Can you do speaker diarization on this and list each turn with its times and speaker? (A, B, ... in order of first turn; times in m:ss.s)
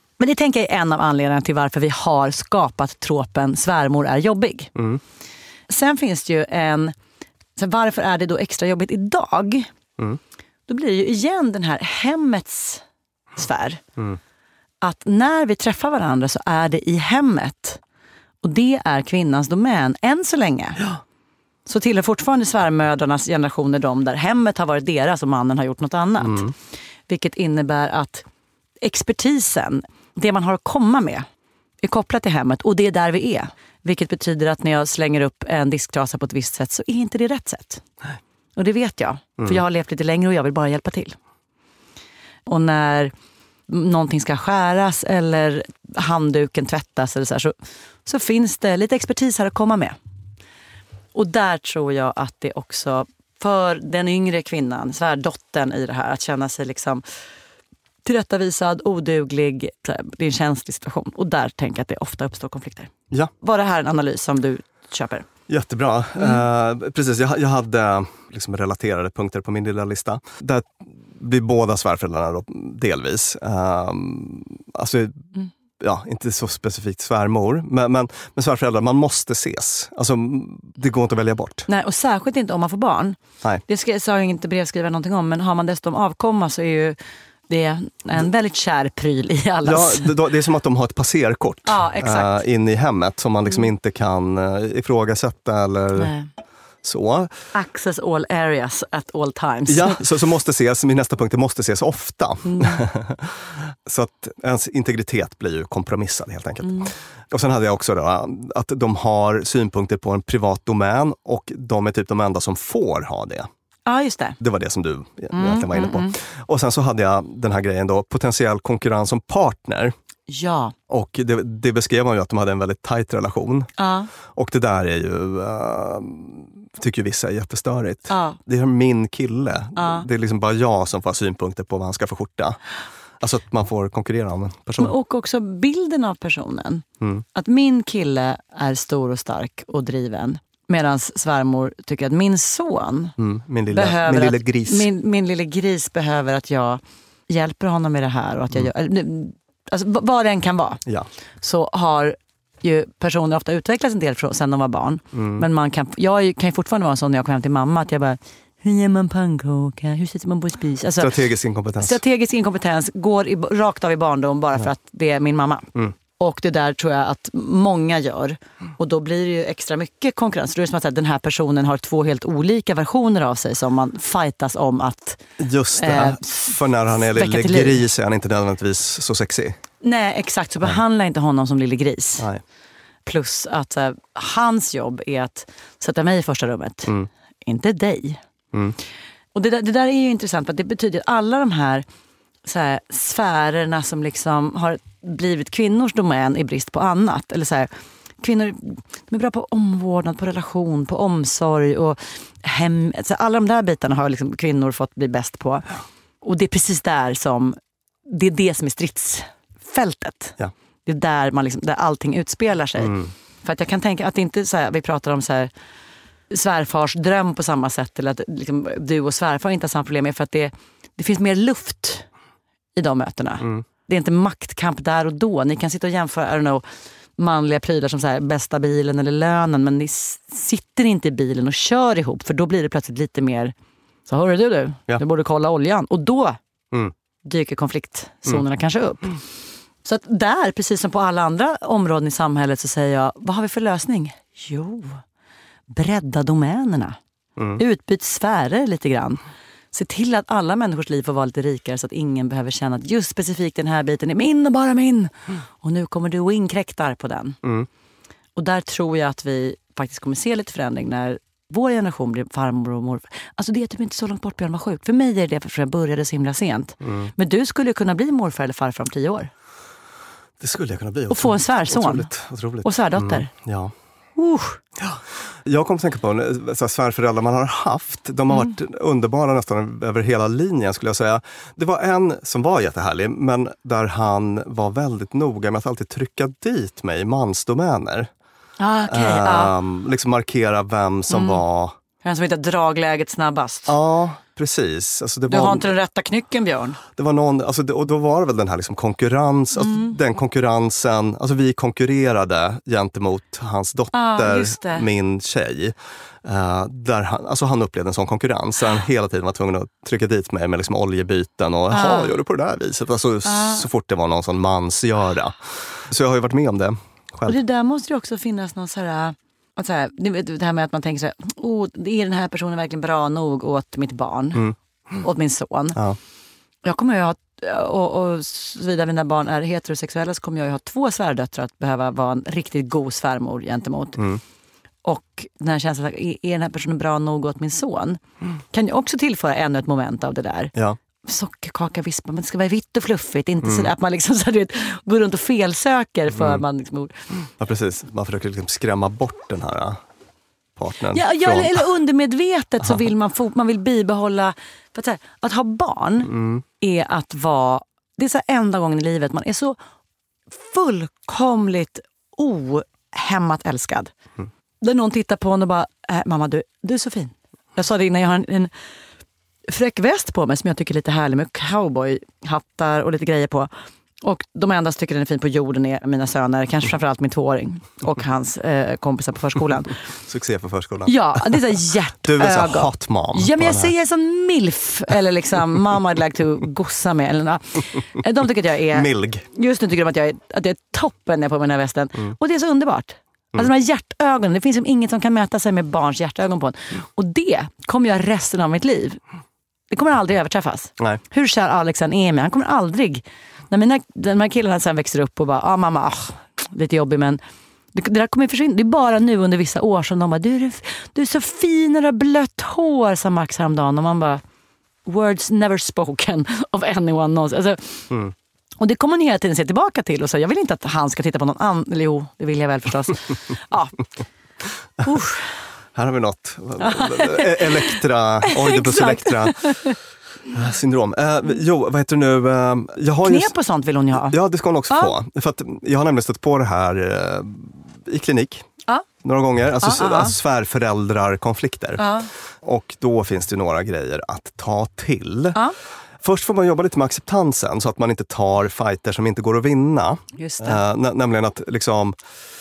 0:00.2-0:04.7 A
0:05.7-0:06.9 A
0:07.6-0:09.7 A
0:10.7-0:12.8 A
0:13.4-0:13.8 A
0:14.8-0:17.8 A
0:18.4-0:20.8 A
0:21.7-0:26.5 A
0:26.2-0:26.5 B
0:27.1-0:28.2 A
0:28.8-0:31.2 A
0:31.8-0:37.8 A
0:38.6-0:41.2 A
0:42.5-0:43.1 A
0:43.7-0:47.5 A
0:48.1-0:50.0 A
0:51.1-0:57.0 A
0:58.0-1:05.3 A
1:05.5-1:15.1 B
1:15.8-1:21.7 B
1:21.7-1:27.0 A
1:27.5-1:30.2 A
1:29.6-1:36.1 B
1:31.6-1:32.4 A
1:36.0-1:36.3 A
1:36.8-1:37.3 B
1:37.5-1:40.0 A
1:39.7-1:43.3 B
1:42.5-1:42.8 A
1:43.9-1:53.5 B
1:53.9-1:54.4 A
1:54.4-1:59.9 B
1:55.3-1:56.1 A
2:00.3-2:00.7 A
2:00.9-2:03.7 B
2:03.8-2:04.1 A
2:04.4-2:12.6 B
2:08.1-2:08.4 A
2:09.8-2:10.1 A
2:13.2-2:14.9 B
2:14.8-2:16.8 A
2:17.4-2:23.1 A
2:23.2-2:24.9 B
2:23.7-2:30.8 A
2:31.4-2:41.1 A
2:35.1-2:35.4 B
2:41.0-2:42.0 B
2:41.8-2:55.2 A
2:55.4-2:59.6 B
2:55.8-2:57.9 A
2:59.8-3:02.3 A
3:03.0-3:08.2 A
3:09.3-3:11.8 A
3:12.4-3:17.7 A
3:18.2-3:27.6 A
3:28.1-3:30.4 A
3:30.9-3:35.5 A
3:32.8-3:33.1 B
3:36.3-3:42.0 A
3:42.8-3:46.6 A
3:47.2-3:53.5 A
3:54.1-3:56.4 A
3:57.2-3:59.2 A
3:59.8-4:05.0 A
4:05.7-4:07.0 A
4:07.6-4:09.2 A
4:09.7-4:17.4 A
4:18.4-4:29.3 A
4:26.8-4:27.1 B
4:30.4-4:33.7 B
4:31.1-4:32.1 A
4:32.6-4:33.3 A
4:34.2-4:34.6 A
4:34.8-4:48.1 B
4:48.6-4:49.5 A
4:48.9-4:51.8 B
4:51.1-4:51.4 A
4:52.0-4:53.8 A
4:53.7-4:55.7 B
4:55.3-4:56.8 A
4:57.0-5:05.7 B
4:59.6-5:00.0 A
5:03.9-5:04.9 A
5:06.2-5:15.4 B
5:11.7-5:12.2 A
5:13.2-5:13.7 A
5:15.9-5:17.4 B
5:17.3-5:25.8 A
5:26.6-5:34.0 A
5:34.8-5:38.0 A
5:38.5-5:40.5 A
5:41.0-5:47.0 A
5:43.4-5:43.7 B
5:46.1-5:46.4 B
5:47.4-5:49.8 B
5:50.6-5:51.6 B
5:50.9-5:59.6 A
5:56.1-5:56.4 B
6:00.3-6:03.9 A
6:04.6-6:08.5 A
6:09.5-6:13.5 A
6:14.0-6:19.7 A
6:20.0-6:21.2 B
6:20.9-6:39.0 A
6:22.0-6:23.7 B
6:28.7-6:29.2 B
6:39.7-6:47.2 A
6:47.7-6:54.2 A
6:54.9-6:57.8 A
6:58.6-7:03.8 A
7:04.8-7:05.2 A
7:05.8-7:09.4 B
7:06.6-7:07.7 A
7:08.2-7:09.7 A
7:10.3-7:13.3 B
7:13.0-7:14.2 A
7:14.0-7:18.4 B
7:19.0-7:21.8 B
7:19.6-7:20.1 A
7:21.8-7:22.1 A
7:22.4-7:25.4 B
7:26.0-7:32.0 B
7:30.2-7:30.6 A